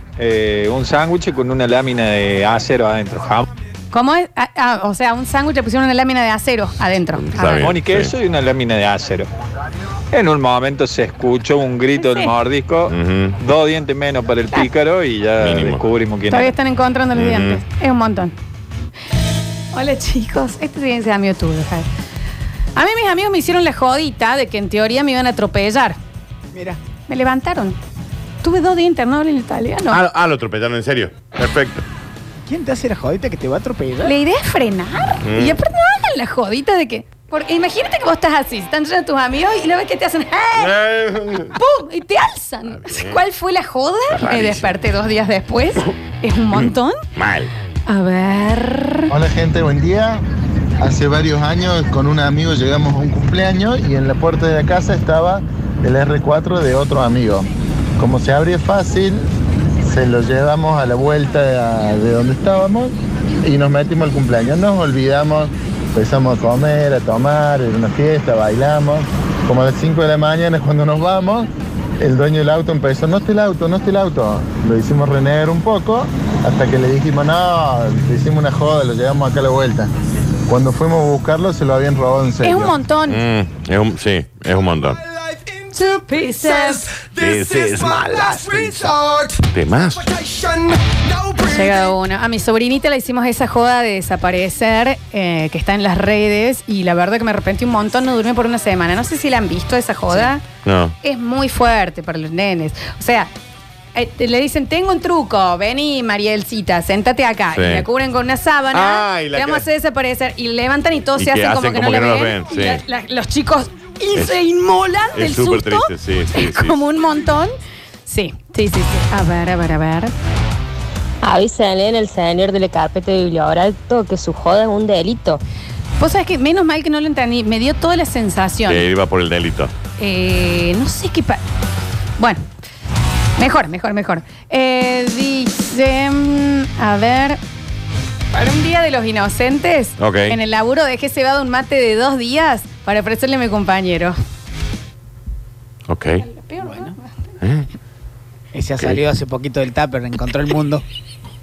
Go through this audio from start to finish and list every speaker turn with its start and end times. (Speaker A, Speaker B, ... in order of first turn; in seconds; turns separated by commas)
Speaker A: 0.2-3.5, Speaker B: 3.9-7.7, Speaker C: 7.2-8.1, Speaker A: 7.6-9.3, Speaker A: 10.1-16.5, Speaker B: 12.0-12.3, Speaker C: 12.9-13.3, Speaker C: 15.4-15.8, Speaker B: 16.3-18.3, Speaker C: 17.1-17.6, Speaker B: 19.7-21.9, Speaker B: 22.8-26.0, Speaker D: 26.5-26.8, Speaker B: 27.1-27.8, Speaker B: 28.4-30.0, Speaker C: 29.9-31.8, Speaker D: 32.5-34.1, Speaker B: 34.0-40.8, Speaker C: 35.2-35.6, Speaker C: 40.5-41.5, Speaker B: 41.5-47.0, Speaker C: 42.7-43.2, Speaker C: 44.1-44.8, Speaker C: 46.5-47.5, Speaker B: 47.9-49.1, Speaker E: 49.1-50.2, Speaker E: 50.8-59.3, Speaker E: 59.8-79.9, Speaker E: 80.5-82.8, Speaker B: 82.4-83.2, Speaker C: 83.1-85.0, Speaker B: 85.8-86.9, Speaker C: 87.0-90.4, Speaker B: 91.4-100.4, Speaker C: 100.6-101.0, Speaker B: 101.0-103.3, Speaker B: 103.9-117.5, Speaker C: 107.5-107.8, Speaker C: 108.7-109.6, Speaker C: 111.2-112.8, Speaker C: 115.1-116.8, Speaker B: 118.0-120.1, Speaker F: 121.2-125.4, Speaker B: 126.0-128.8, Speaker C: 128.7-129.7, Speaker B: 130.0-131.4, Speaker B: 132.2-132.4, Speaker B: 133.4-137.4, Speaker B: 138.3-144.2, Speaker C: 140.0-140.4, Speaker C: 145.9-146.2, Speaker B: 146.2-147.1, Speaker D: 146.6-146.9, Speaker C: 147.4-147.7, Speaker D: 148.5-150.8